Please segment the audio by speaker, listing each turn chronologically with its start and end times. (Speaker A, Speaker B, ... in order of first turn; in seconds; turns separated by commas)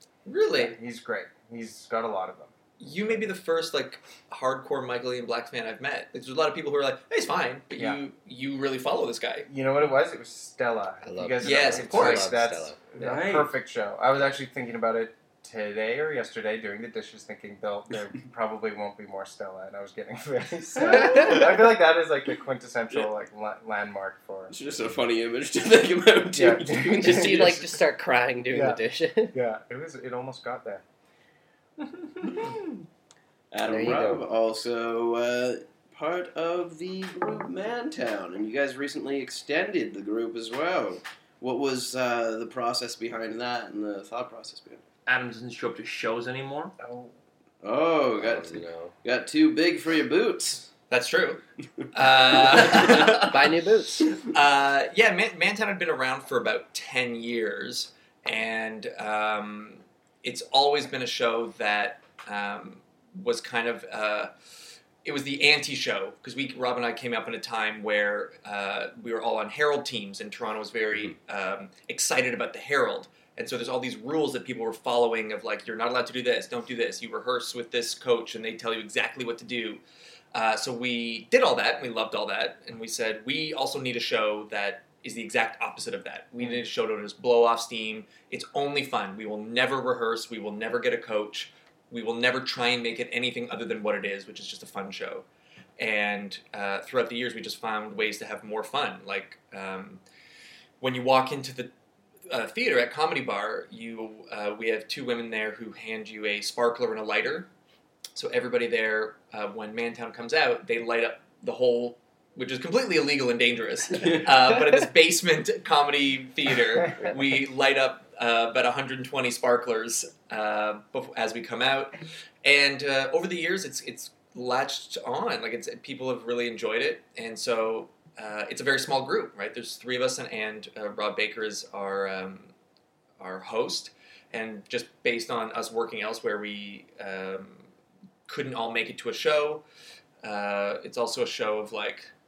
Speaker A: 0.2-0.8, Speaker B: 0.5-3.2, Speaker A: 2.8-9.5, Speaker B: 9.4-24.5, Speaker C: 11.0-13.2, Speaker A: 11.4-12.3, Speaker D: 13.0-13.5, Speaker C: 20.9-21.4, Speaker E: 24.5-27.6, Speaker B: 26.3-27.6, Speaker C: 27.0-29.4, Speaker B: 28.5-30.8, Speaker E: 33.5-44.8, Speaker C: 33.6-34.2, Speaker D: 45.1-46.7, Speaker B: 46.8-47.1, Speaker E: 47.6-50.7, Speaker C: 48.2-48.9, Speaker A: 50.9-51.4, Speaker A: 51.9-53.5, Speaker C: 53.3-54.1, Speaker A: 54.3-64.3, Speaker A: 65.0-79.8, Speaker A: 80.3-95.3, Speaker A: 95.8-100.0, Speaker A: 100.8-101.7, Speaker A: 102.3-107.5, Speaker A: 108.2-132.5, Speaker A: 133.2-137.7, Speaker A: 138.3-139.6, Speaker A: 140.2-142.1